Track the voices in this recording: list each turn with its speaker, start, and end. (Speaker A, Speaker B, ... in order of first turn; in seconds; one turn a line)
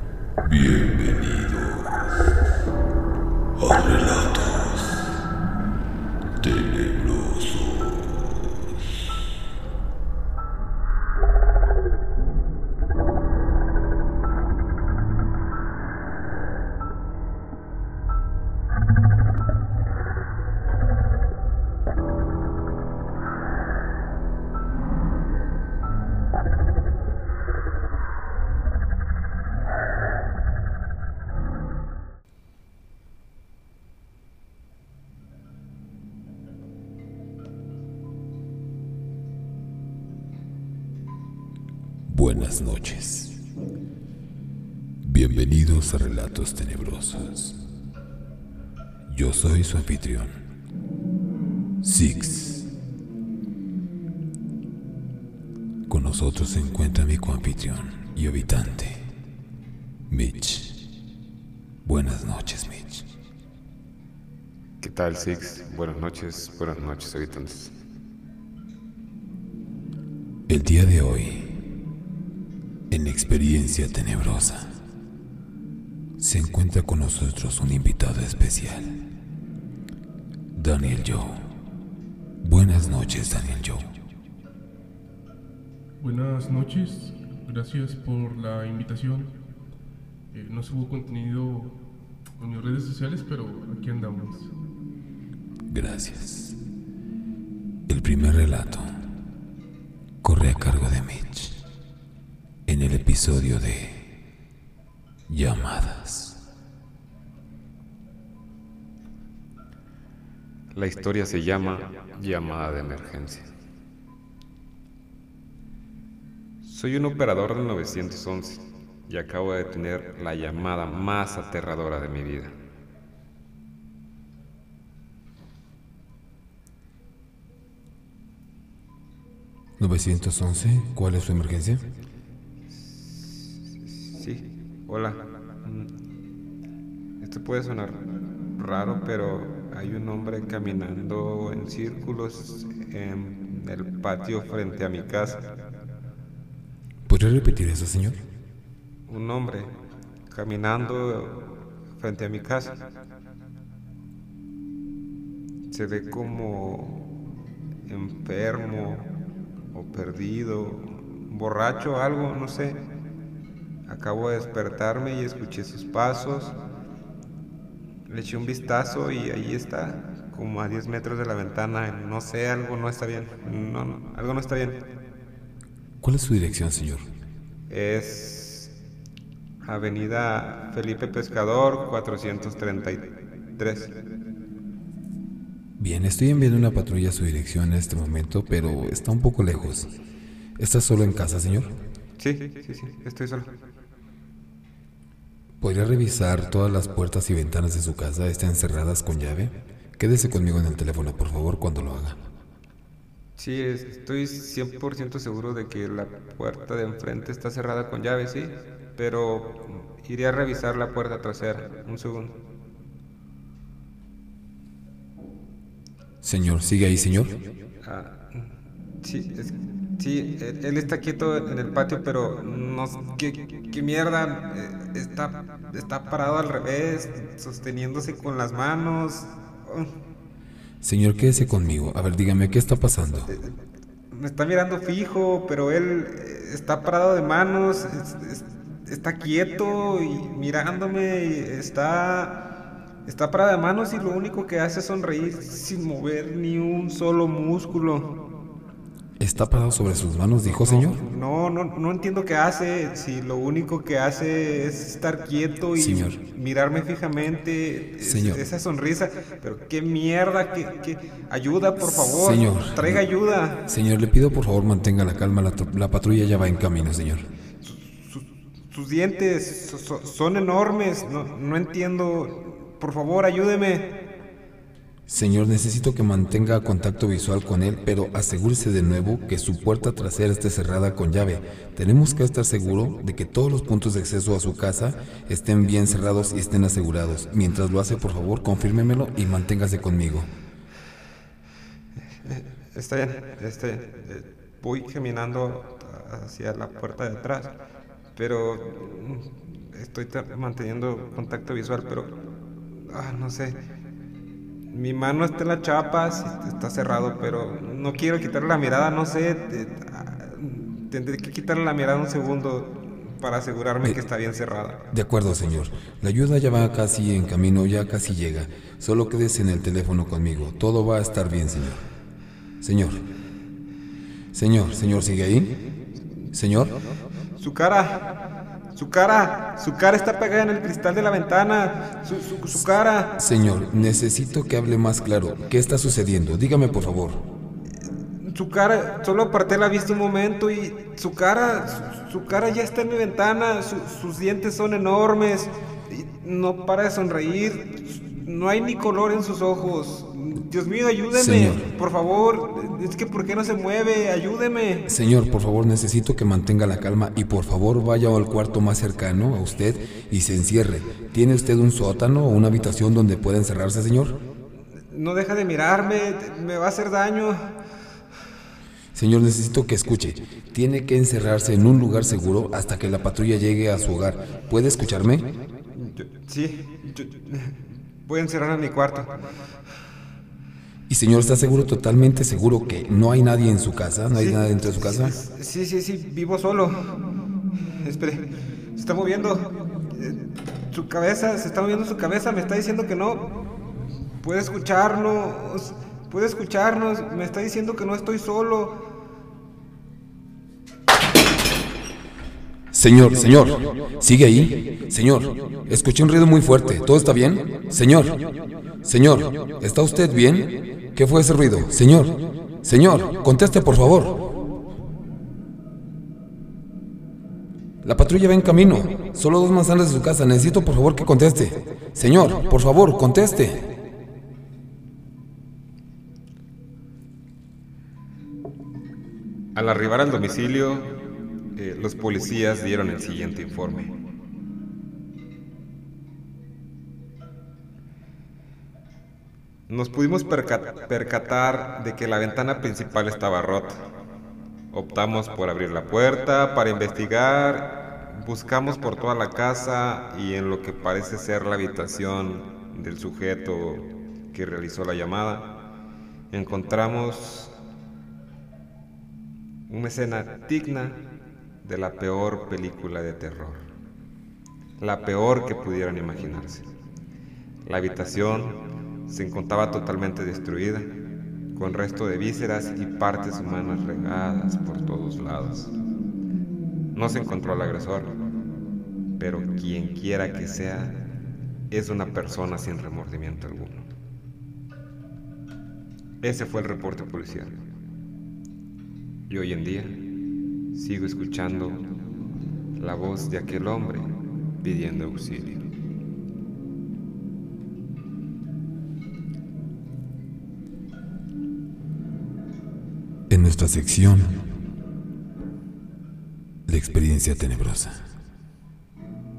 Speaker A: 0.4-2.3
Speaker A: 3.6-5.2
Speaker A: 6.4-8.6
Speaker A: 42.1-43.4
Speaker A: 45.0-47.6
Speaker A: 49.1-50.3
Speaker A: 51.8-52.7
Speaker A: 55.9-59.1
Speaker A: 60.1-60.8
Speaker A: 61.8-63.1
Speaker B: 64.8-67.8
Speaker A: 70.5-71.6
Speaker A: 72.9-74.7
Speaker A: 76.2-79.0
Speaker A: 80.5-81.4
Speaker A: 82.4-83.9
Speaker C: 86.0-89.3
Speaker C: 90.3-91.8
Speaker C: 92.4-94.5
Speaker A: 95.7-96.6
Speaker A: 97.9-99.0
Speaker A: 100.2-101.6
Speaker A: 102.7-104.1
Speaker A: 105.3-106.4
Speaker B: 110.8-113.5
Speaker B: 116.6-122.5
Speaker A: 129.8-131.8
Speaker B: 132.7-135.9
Speaker B: 137.2-138.0
Speaker B: 138.6-145.4
Speaker A: 147.1-148.2
Speaker B: 149.1-149.7
Speaker B: 150.3-152.8
Speaker B: 155.7-157.0
Speaker B: 157.9-159.1
Speaker B: 159.7-162.8
Speaker B: 163.9-166.6
Speaker B: 168.1-174.8
Speaker A: 176.0-177.1
Speaker B: 177.7-178.7
Speaker B: 179.7-183.9
Speaker A: 185.8-189.9
Speaker A: 190.6-191.7
Speaker B: 192.2-193.5
Speaker A: 195.6-202.2
Speaker B: 203.4-212.3
Speaker A: 216.2-217.3
Speaker B: 217.8-218.5
Speaker B: 219.0-229.9
Speaker A: 230.8-233.3
Speaker B: 234.1-242.4
Speaker B: 243.1-248.1
Speaker A: 249.2-251.0
Speaker B: 250.5-263.6
Speaker A: 255.8-256.2
Speaker A: 258.0-258.4
Speaker A: 261.8-263.0
Speaker A: 263.7-267.3
Speaker B: 267.6-273.9
Speaker A: 275.1-290.3
Speaker B: 292.2-297.5
Speaker B: 298.2-302.1
Speaker B: 302.8-303.6
Speaker B: 304.7-314.8
Speaker A: 314.9-321.9
Speaker A: 322.6-323.0
Speaker A: 324.3-325.5
Speaker A: 326.3-326.8
Speaker B: 327.4-328.1
Speaker B: 328.7-333.1
Speaker A: 333.2-337.2
Speaker B: 338.2-354.9
Speaker A: 351.1-351.7
Speaker A: 354.9-364.2
Speaker B: 364.9-367.4
Speaker A: 368.9-375.3
Speaker B: 375.7-379.1
Speaker A: 380.9-385.2
Speaker B: 384.1-386.8
Speaker B: 387.8-393.3
Speaker B: 394.2-398.8
Speaker A: 402.7-408.2
Speaker A: 408.8-414.3
Speaker A: 417.8-423.7
Speaker B: 429.6-430.9
Speaker B: 431.6-433.9
Speaker B: 439.7-443.8
Speaker B: 444.7-455.5
Speaker B: 456.3-457.5
Speaker B: 459.7-461.0
Speaker B: 461.6-463.6
Speaker B: 464.8-466.7
Speaker B: 467.6-470.9
Speaker B: 471.6-475.7
Speaker B: 476.9-478.2
Speaker B: 479.2-481.0
Speaker B: 481.7-483.9
Speaker B: 486.2-487.5
Speaker B: 489.3-490.0
Speaker B: 490.7-491.9
Speaker B: 492.8-494.1
Speaker B: 494.6-495.6
Speaker A: 503.3-504.4
Speaker A: 506.7-508.1